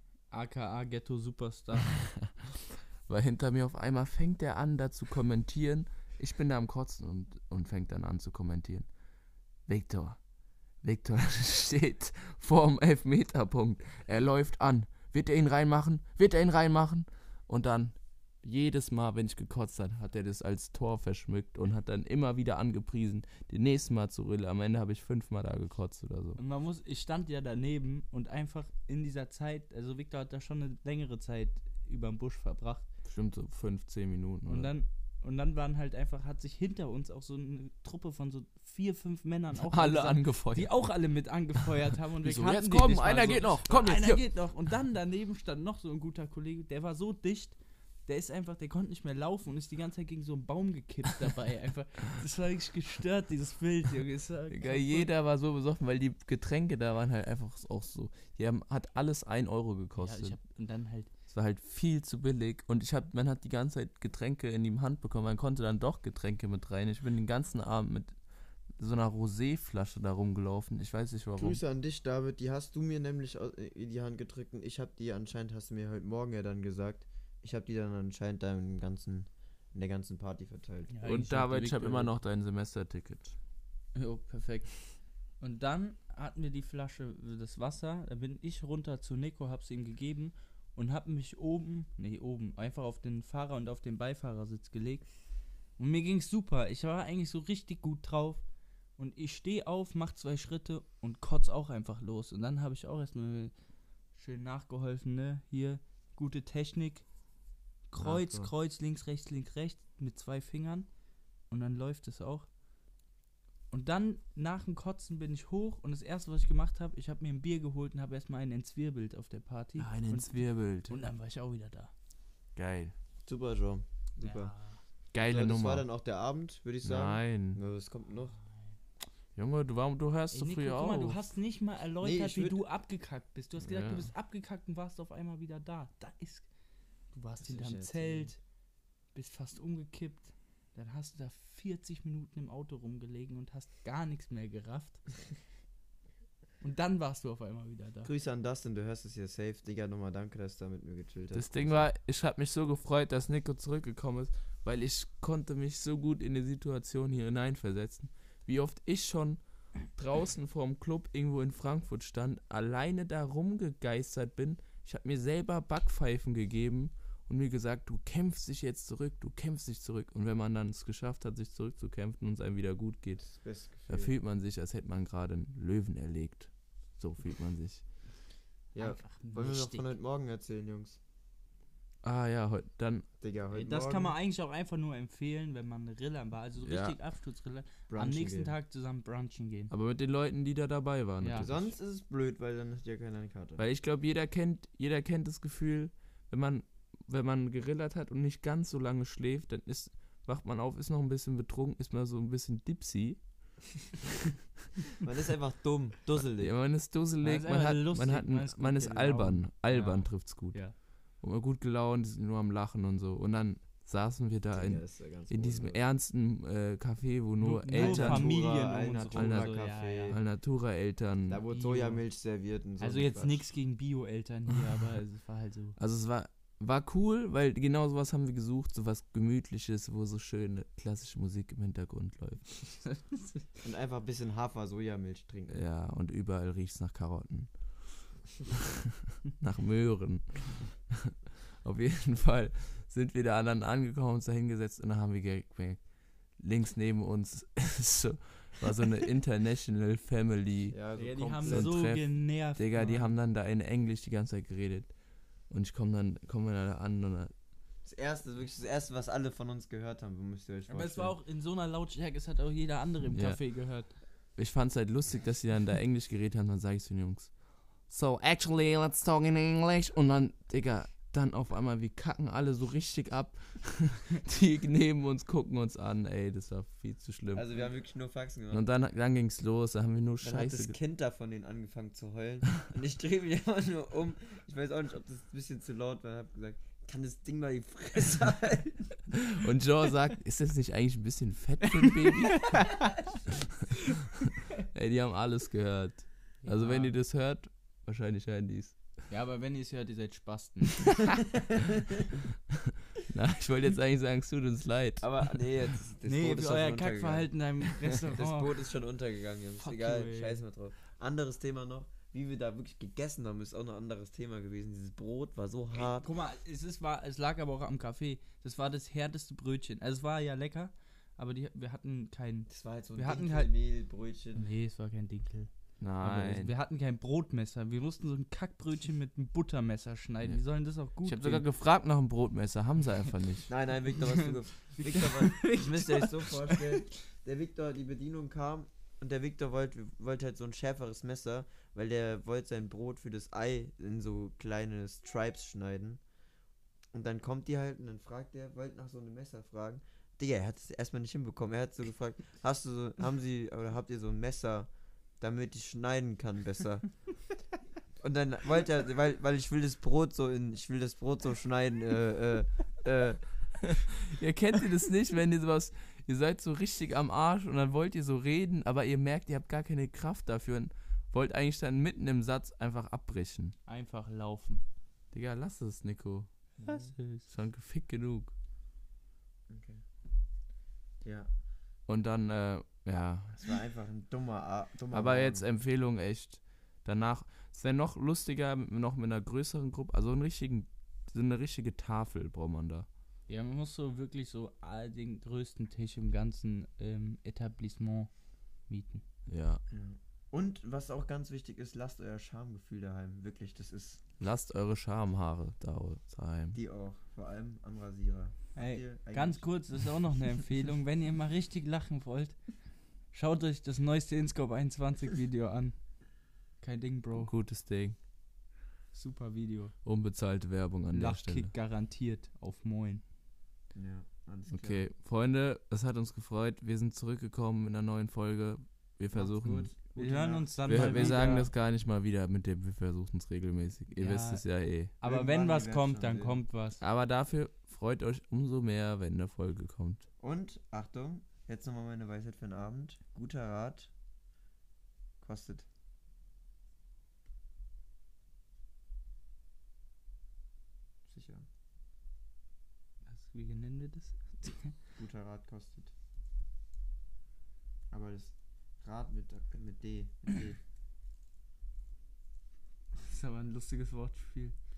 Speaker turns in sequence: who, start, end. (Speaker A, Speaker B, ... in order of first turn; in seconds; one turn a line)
Speaker A: 0.3-1.9
Speaker B: 1.9-8.9
Speaker B: 9.7-10.2
Speaker B: 10.8-26.4
Speaker A: 26.4-32.9
Speaker B: 33.0-34.7
Speaker A: 34.5-55.1
Speaker B: 39.7-40.8
Speaker B: 42.2-44.2
Speaker B: 54.5-60.4
Speaker A: 59.9-61.1
Speaker B: 61.3-68.2
Speaker B: 68.8-71.6
Speaker C: 71.4-81.0
Speaker A: 80.9-82.1
Speaker B: 81.0-83.3
Speaker A: 83.9-84.8
Speaker A: 85.4-95.1
Speaker A: 95.8-98.4
Speaker A: 99.0-103.5
Speaker A: 104.1-107.0
Speaker A: 107.9-110.9
Speaker C: 108.0-108.5
Speaker A: 111.5-112.5
Speaker A: 113.7-121.9
Speaker B: 119.8-121.1
Speaker B: 122.5-122.9
Speaker C: 123.2-124.5
Speaker A: 124.2-124.8
Speaker B: 125.1-125.9
Speaker C: 125.2-128.4
Speaker B: 126.8-127.6
Speaker B: 129.3-131.2
Speaker A: 130.3-136.4
Speaker C: 132.0-132.6
Speaker B: 133.6-134.1
Speaker A: 137.1-138.4
Speaker C: 137.4-138.3
Speaker A: 139.1-145.0
Speaker A: 146.6-148.1
Speaker C: 148.0-151.8
Speaker B: 151.3-173.3
Speaker C: 173.2-174.1
Speaker B: 173.9-177.8
Speaker C: 178.7-181.0
Speaker A: 178.8-179.9
Speaker B: 182.0-183.1
Speaker C: 183.2-184.2
Speaker A: 183.5-189.7
Speaker B: 186.6-186.9
Speaker C: 187.9-188.5
Speaker B: 189.7-191.7
Speaker A: 191.2-191.5
Speaker C: 191.4-193.6
Speaker B: 193.6-203.5
Speaker C: 205.0-206.5
Speaker B: 206.2-218.3
Speaker A: 207.2-210.8
Speaker C: 214.5-215.8
Speaker A: 217.4-220.2
Speaker C: 217.7-220.3
Speaker B: 219.1-221.4
Speaker C: 221.3-223.5
Speaker A: 221.5-222.0
Speaker A: 222.8-225.8
Speaker B: 225.8-232.9
Speaker C: 233.6-235.6
Speaker B: 235.5-238.7
Speaker B: 239.2-245.8
Speaker B: 246.4-250.8
Speaker C: 250.7-251.8
Speaker A: 251.0-253.1
Speaker B: 251.4-254.9
Speaker B: 255.5-257.3
Speaker C: 257.8-261.1
Speaker A: 260.7-263.9
Speaker B: 263.1-263.5
Speaker B: 264.4-277.4
Speaker C: 277.3-278.6
Speaker B: 278.5-280.8
Speaker C: 280.2-289.1
Speaker B: 289.2-292.7
Speaker A: 291.8-292.8
Speaker B: 294.7-298.7
Speaker A: 296.4-296.9
Speaker A: 299.1-301.1
Speaker B: 303.0-305.4
Speaker C: 305.0-307.3
Speaker A: 306.0-308.6
Speaker C: 308.0-316.1
Speaker A: 309.6-310.4
Speaker A: 315.7-323.5
Speaker C: 322.5-324.5
Speaker A: 324.3-331.4
Speaker B: 325.8-326.5
Speaker B: 331.0-333.5
Speaker C: 333.5-346.0
Speaker A: 334.1-336.9
Speaker C: 346.9-356.9
Speaker C: 358.0-363.7
Speaker B: 363.6-373.6
Speaker A: 373.7-374.6
Speaker B: 375.1-376.3
Speaker C: 376.6-376.9
Speaker A: 376.6-377.3
Speaker B: 377.2-378.3
Speaker C: 379.5-379.8
Speaker C: 381.0-381.3
Speaker B: 381.9-383.4
Speaker C: 383.4-385.4
Speaker B: 384.9-392.9
Speaker A: 393.3-398.1
Speaker A: 398.7-399.0
Speaker B: 399.3-399.6
Speaker C: 399.7-404.0
Speaker B: 404.2-406.6
Speaker C: 406.5-409.6
Speaker A: 408.5-412.4
Speaker A: 413.1-415.8
Speaker A: 416.6-417.3
Speaker B: 417.1-418.0
Speaker A: 418.9-419.7
Speaker B: 419.8-421.5
Speaker A: 420.9-423.0
Speaker C: 423.7-424.9
Speaker B: 424.5-429.7
Speaker C: 429.1-431.4
Speaker A: 429.9-431.5
Speaker B: 430.7-434.9
Speaker A: 433.9-436.8
Speaker C: 435.0-436.4
Speaker B: 436.8-440.1
Speaker C: 440.2-443.9
Speaker C: 445.2-445.7
Speaker C: 451.0-451.5
Speaker A: 453.1-454.8
Speaker C: 455.0-455.9
Speaker C: 457.9-460.6
Speaker A: 463.0-464.6